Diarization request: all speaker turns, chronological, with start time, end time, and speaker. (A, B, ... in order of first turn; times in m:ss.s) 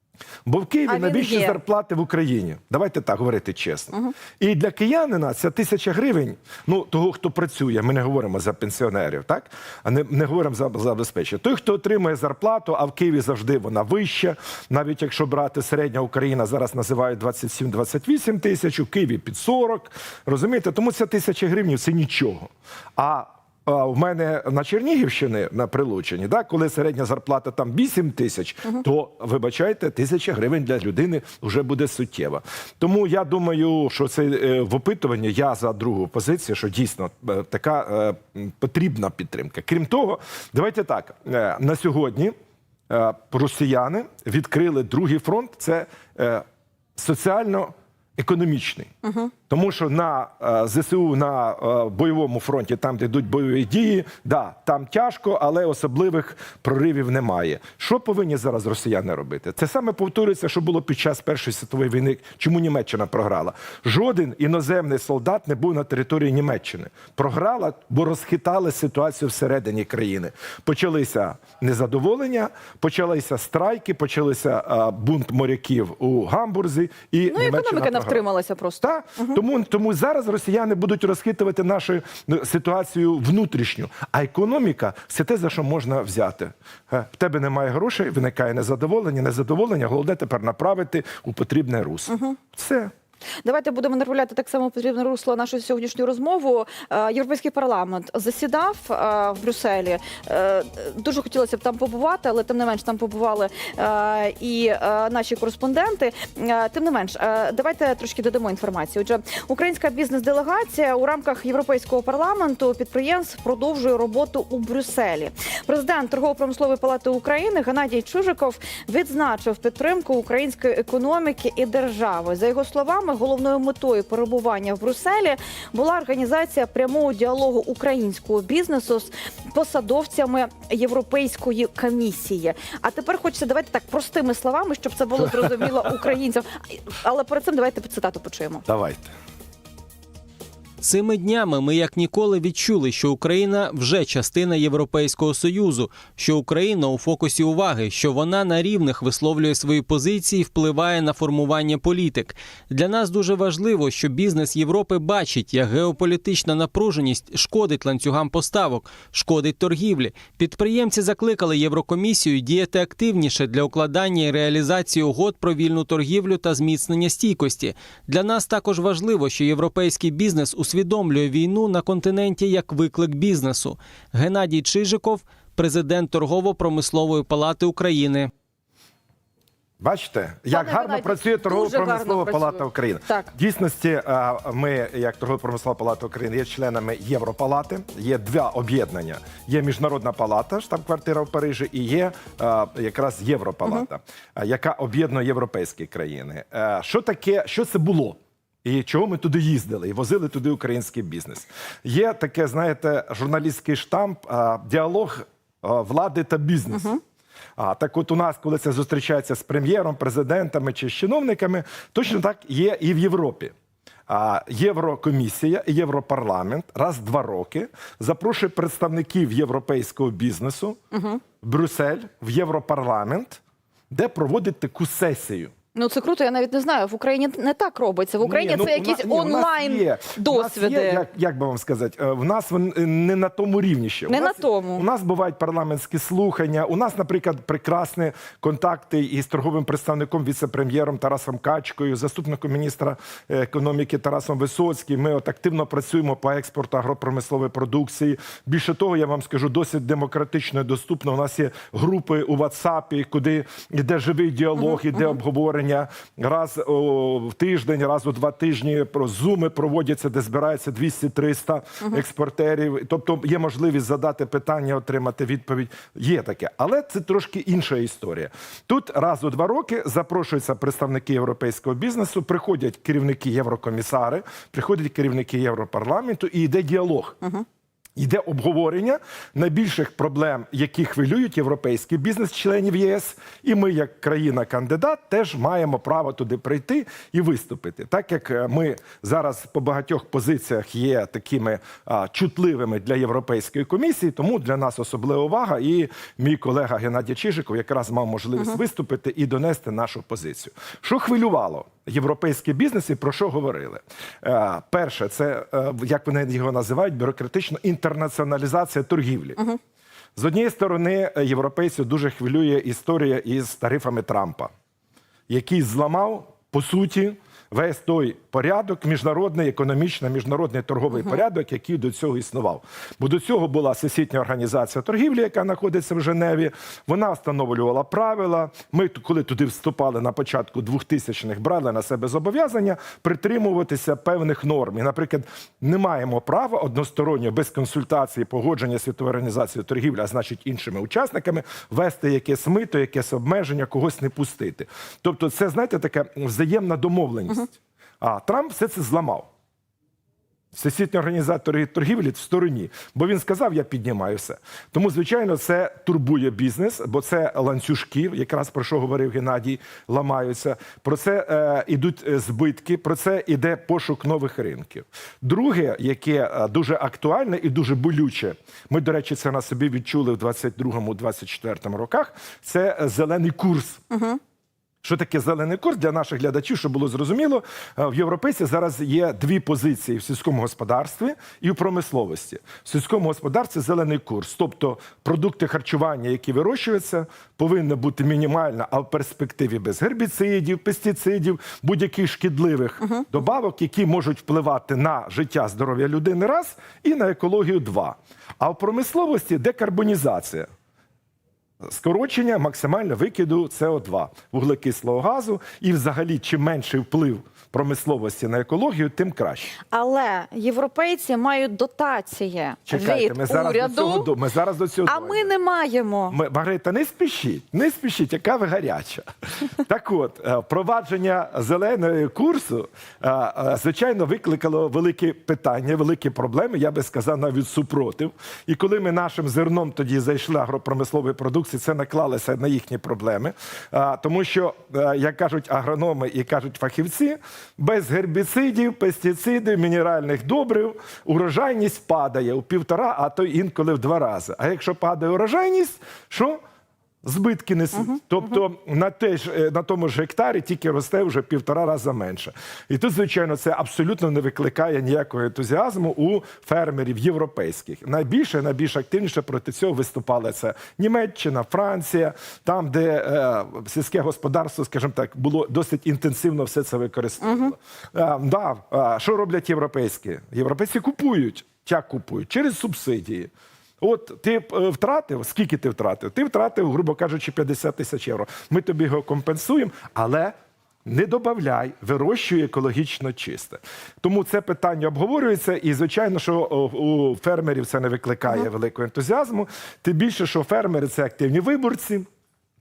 0:00.4-0:42.3 A
0:00.9-0:01.6 B
0:42.9-0:46.4 A
0:47.0-0:48.9 A
0:49.0-0:49.3 B
0:49.5-1:18.2 A
1:17.3-1:19.4 B
1:18.8-1:32.9 A
1:32.1-1:32.4 B
1:33.4-2:18.6 B
2:18.7-2:19.1 A
2:20.8-2:58.3 C
2:59.8-3:27.0 A
3:00.5-3:03.3 B
3:27.6-3:33.5 A
3:34.1-3:40.8 A
3:40.9-3:41.2 B
3:41.4-3:45.5 A
3:45.7-3:51.0 B
3:48.2-4:37.2 A
3:54.1-3:54.8 B
4:38.0-5:09.4 A
5:10.2-5:14.5 A
5:15.3-5:49.3 A
5:50.5-6:13.8 A
6:13.9-6:14.2 B
6:14.8-6:40.5 A
6:41.6-6:49.5 A
6:49.7-6:54.1 B
6:52.7-6:55.3 A
6:54.8-6:56.2 B
6:56.1-7:26.4 A
7:27.0-7:53.3 A
7:47.2-7:47.5 B
7:53.8-8:12.0 A